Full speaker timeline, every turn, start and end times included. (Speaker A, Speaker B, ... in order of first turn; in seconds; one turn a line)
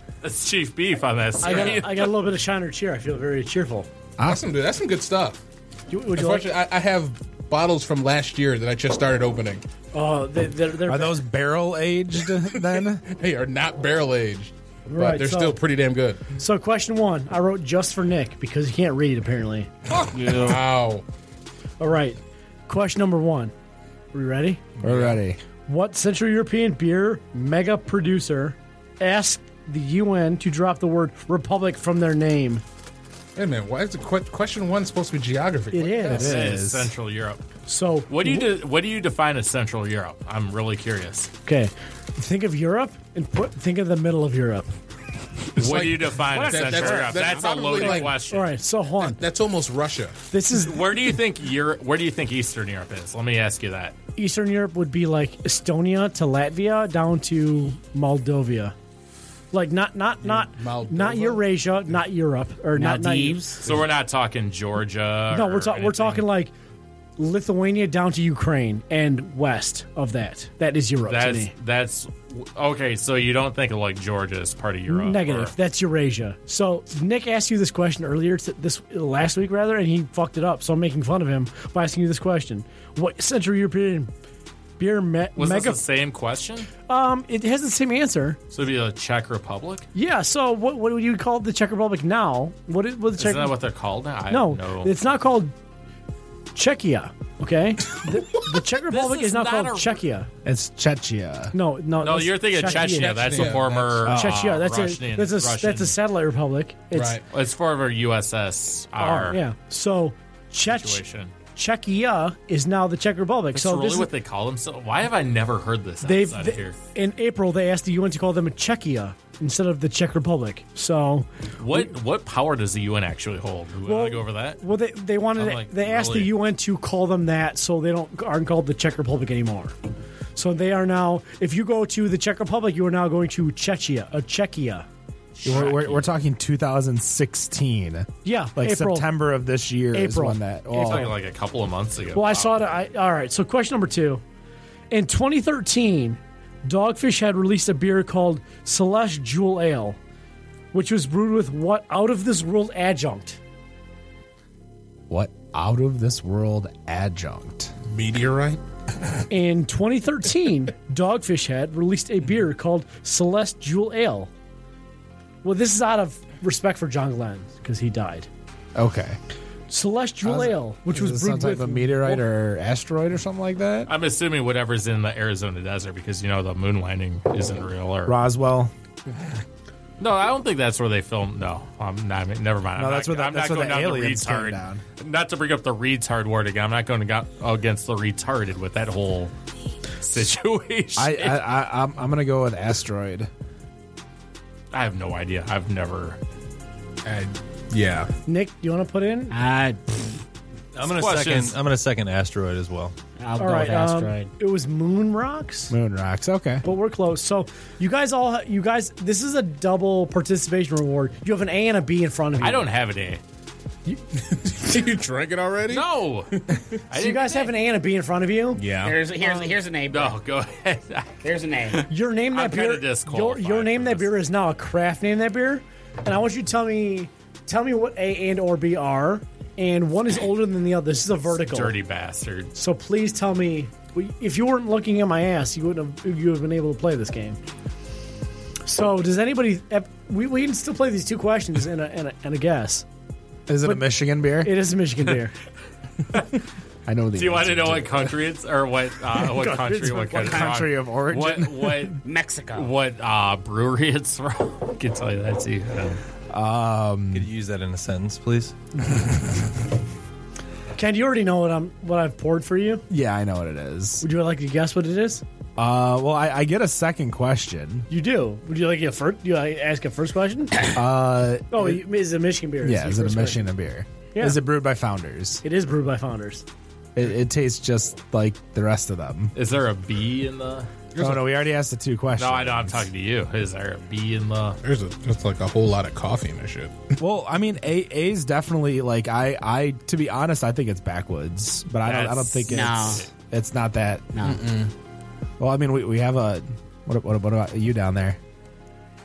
Speaker A: 0.2-2.1
Speaker B: 1.4-3.9
Speaker C: 4.2-5.4
Speaker B: 5.9-6.5
Speaker C: 6.2-9.6
Speaker B: 9.9-11.2
Speaker D: 10.9-13.0
Speaker C: 12.7-16.3
Speaker B: 14.9-15.6
Speaker B: 16.4-19.7
Speaker E: 20.1-20.6
Speaker C: 20.2-21.1
Speaker B: 21.8-23.5
Speaker B: 24.1-24.6
Speaker D: 24.8-25.4
Speaker C: 24.8-25.2
Speaker B: 25.7-32.6
Speaker C: 33.4-36.3
Speaker B: 35.7-36.6
Speaker D: 36.1-36.9
Speaker A: 36.1-37.4
Speaker B: 37.7-38.5
Speaker A: 38.1-41.3
Speaker B: 41.5-44.7
Speaker A: 45.5-48.5
Speaker C: 45.6-48.2
Speaker B: 46.3-47.2
Speaker E: 46.4-48.1
Speaker B: 48.1-49.2
Speaker C: 49.0-50.2
Speaker B: 50.3-50.9
Speaker A: 50.5-54.0
Speaker B: 54.2-58.7
Speaker B: 59.5-63.5
Speaker C: 60.2-61.5
Speaker E: 62.8-63.7
Speaker A: 63.6-66.3
Speaker B: 65.3-66.5
Speaker B: 67.2-71.5
Speaker A: 71.1-75.5
Speaker B: 74.9-84.1
Speaker B: 84.8-85.8
Speaker A: 85.4-86.7
Speaker B: 86.9-88.4
Speaker A: 88.5-89.9
Speaker B: 90.0-93.6
Speaker A: 93.2-95.0
Speaker B: 94.3-95.5
Speaker B: 96.5-100.3
Speaker A: 98.9-100.0
Speaker D: 100.5-101.5
Speaker B: 101.5-107.2
Speaker A: 102.0-106.0
Speaker C: 102.8-104.1
Speaker D: 104.0-104.5
Speaker C: 106.9-107.2
Speaker A: 107.3-109.4
Speaker B: 109.0-111.0
Speaker A: 110.7-111.3
Speaker B: 111.5-114.1
Speaker A: 113.5-116.8
Speaker B: 116.0-121.9
Speaker A: 121.6-124.6
Speaker B: 123.8-129.7
Speaker A: 125.4-126.3
Speaker B: 130.4-134.9
Speaker A: 135.4-136.1
Speaker D: 135.4-141.1
Speaker B: 138.2-139.1
Speaker B: 139.9-141.1
Speaker A: 140.7-142.7
Speaker B: 142.1-144.2
Speaker B: 144.9-150.0
Speaker B: 150.7-153.4
Speaker D: 155.1-157.7
Speaker C: 157.9-158.6
Speaker B: 159.3-164.3
Speaker B: 165.4-168.3
Speaker D: 168.8-169.2
Speaker B: 169.7-172.2
Speaker D: 170.2-173.9
Speaker A: 173.9-178.2
Speaker D: 178.1-178.7
Speaker A: 180.0-189.3
Speaker D: 182.8-184.8
Speaker A: 190.0-191.4
Speaker D: 191.0-193.3
Speaker A: 194.7-196.2
Speaker C: 197.1-198.1
Speaker B: 198.3-199.3
Speaker E: 199.3-200.2
Speaker F: 200.8-202.9
Speaker A: 200.9-201.6
Speaker E: 203.2-204.3
Speaker B: 203.4-205.7
Speaker D: 205.7-206.6
Speaker B: 206.6-212.7
Speaker A: 212.4-213.2
Speaker C: 214.1-216.7
Speaker A: 215.7-216.3
Speaker A: 216.9-217.5
Speaker B: 216.9-218.6
Speaker C: 218.6-219.0
Speaker E: 218.8-220.2
Speaker A: 219.2-221.2
Speaker E: 221.2-221.9
Speaker A: 221.7-224.1
Speaker B: 221.9-231.8
Speaker A: 231.3-232.5
Speaker B: 232.6-237.4
Speaker B: 238.7-242.9
Speaker D: 243.5-244.6
Speaker B: 243.6-245.3
Speaker D: 246.9-248.1
Speaker A: 247.2-252.0
Speaker B: 249.3-250.5
Speaker D: 250.2-251.9
Speaker E: 252.0-252.7
Speaker A: 252.5-256.0
Speaker D: 256.3-257.3
Speaker F: 257.1-258.5
Speaker B: 260.8-262.8
Speaker D: 262.9-264.1
Speaker B: 264.0-265.2
Speaker D: 265.6-267.9
Speaker B: 267.9-270.7
Speaker D: 270.7-271.8
Speaker B: 271.5-273.4
Speaker D: 272.6-275.4
Speaker B: 275.4-276.4
Speaker D: 276.9-279.3
Speaker A: 279.4-280.7
Speaker C: 280.9-281.4
Speaker D: 281.0-282.9
Speaker A: 282.2-284.6
Speaker C: 284.6-286.9
Speaker D: 287.0-294.1
Speaker A: 291.8-293.1
Speaker E: 292.5-293.1
Speaker E: 294.1-294.4
Speaker C: 294.2-294.7
Speaker D: 295.4-298.2